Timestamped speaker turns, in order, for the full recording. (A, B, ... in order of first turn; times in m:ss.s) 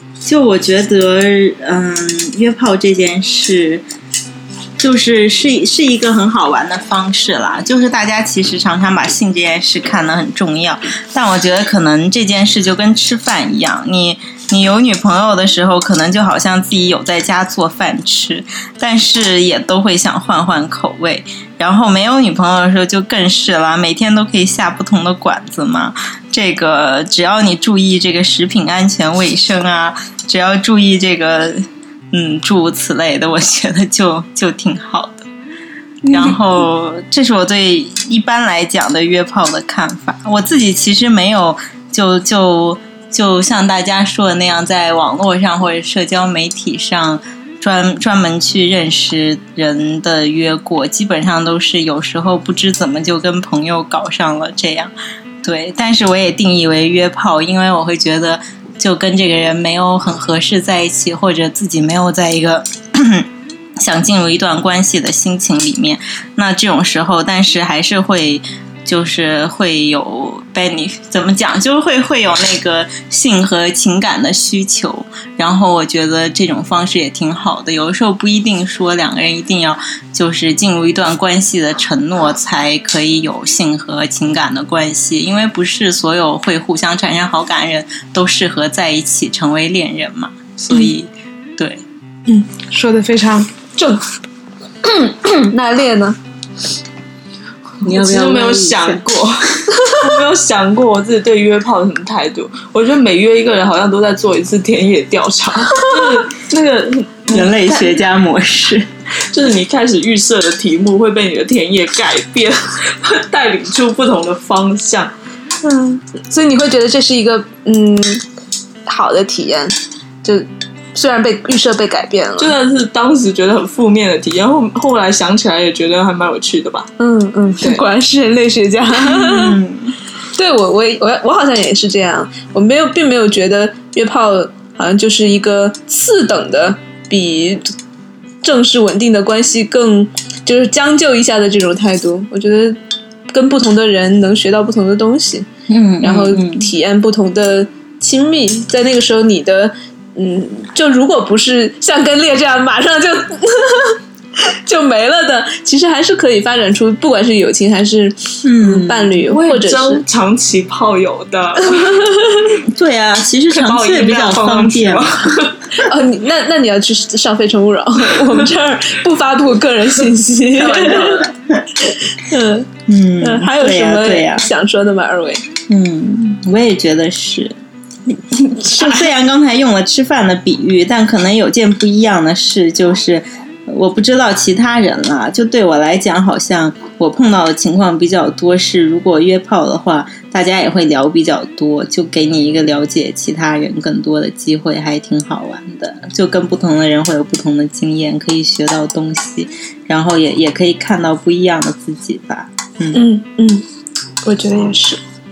0:00.2-0:03.8 A
0:04.8-0:35.2 A
0:36.0-1:03.3 A
1:03.8-1:31.8 A
1:32.3-1:34.0 B
1:34.8-1:36.2 B
1:37.8-1:48.0 C
1:37.8-1:39.0 A
1:47.3-1:48.9 A
1:49.3-1:55.1 C
1:55.6-1:58.2 B
1:58.8-2:02.5 B
2:02.4-2:06.9 C
2:07.0-2:09.6 B
2:08.9-2:09.9 A
2:10.3-2:17.7 B
2:18.4-2:25.5 B
2:25.7-2:26.7 A
2:26.0-2:40.0 B
2:38.4-2:39.2 A
2:39.3-2:42.1 C
2:41.6-2:42.2 B
2:42.6-2:45.2 A
2:43.5-2:45.7 C
2:45.7-2:51.3 B
2:50.6-2:51.3 C
2:51.8-2:55.4 B
2:52.9-2:54.5 A
2:55.7-2:57.5 A
2:58.1-3:23.0 A
3:22.9-3:23.6 B
3:24.2-3:25.0 B